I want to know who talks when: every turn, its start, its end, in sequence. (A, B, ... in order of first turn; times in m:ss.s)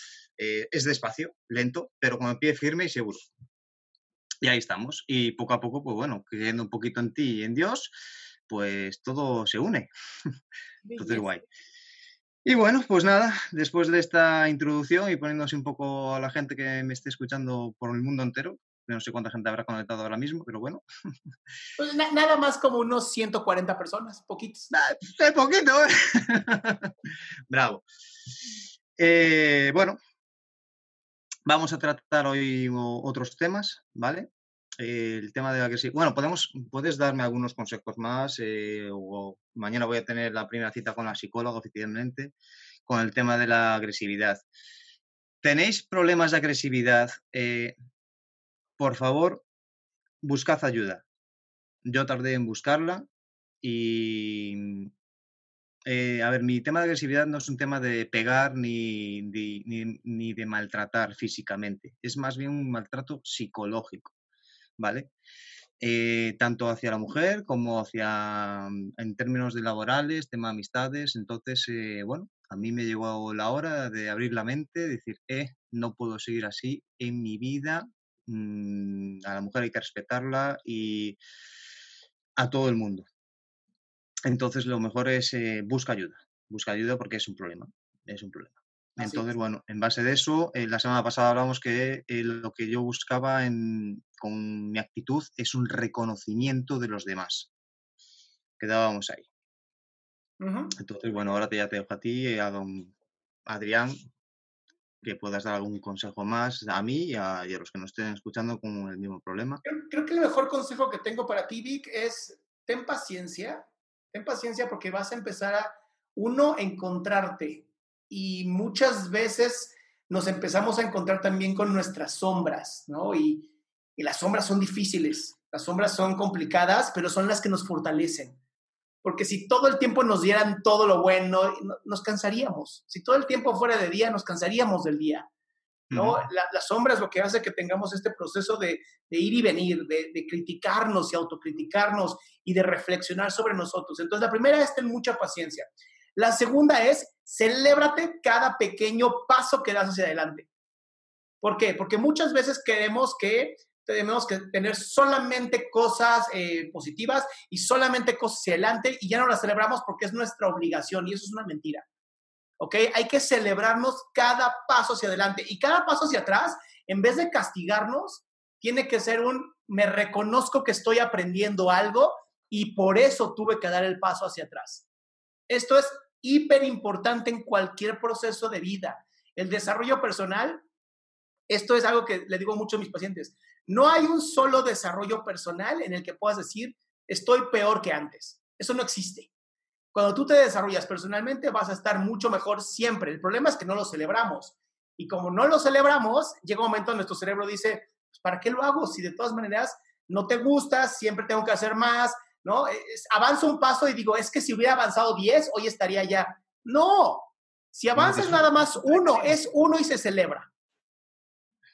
0:00.4-0:03.3 A
0:04.4-0:07.9 A
0:08.5-0:09.9 A
0:10.8-0:11.4 B
0:11.0-0:11.4 A
0:12.4-0:20.8 A
0:21.8-0:24.7 B
0:24.7-0:27.8 A
0:29.0-0:30.0 A
0:31.5-0:42.3 A
0:42.9-0:44.4 A
0:45.4-0:47.8 A
0:48.8-0:49.4 A
0:50.2-0:51.0 A
0:51.8-0:53.1 A
0:53.6-0:54.9 A
0:55.9-1:04.1 A
1:04.8-1:05.1 A
1:05.8-1:21.2 A
1:22.4-1:23.1 A
1:24.2-1:37.5 A
1:29.0-1:29.3 B
1:38.6-1:39.2 A
1:40.4-1:40.7 B
1:40.8-1:42.9 A
1:43.5-1:44.0 A
1:45.0-1:49.6 A
1:49.6-2:08.4 B
2:09.0-2:15.3 B
2:15.9-2:16.2 A
2:15.9-2:30.5 B
2:31.4-2:41.9 B
2:42.6-2:54.9 B
2:55.5-3:00.6 B
3:01.5-3:09.3 B
3:09.9-3:30.5 B
3:28.0-3:29.5 A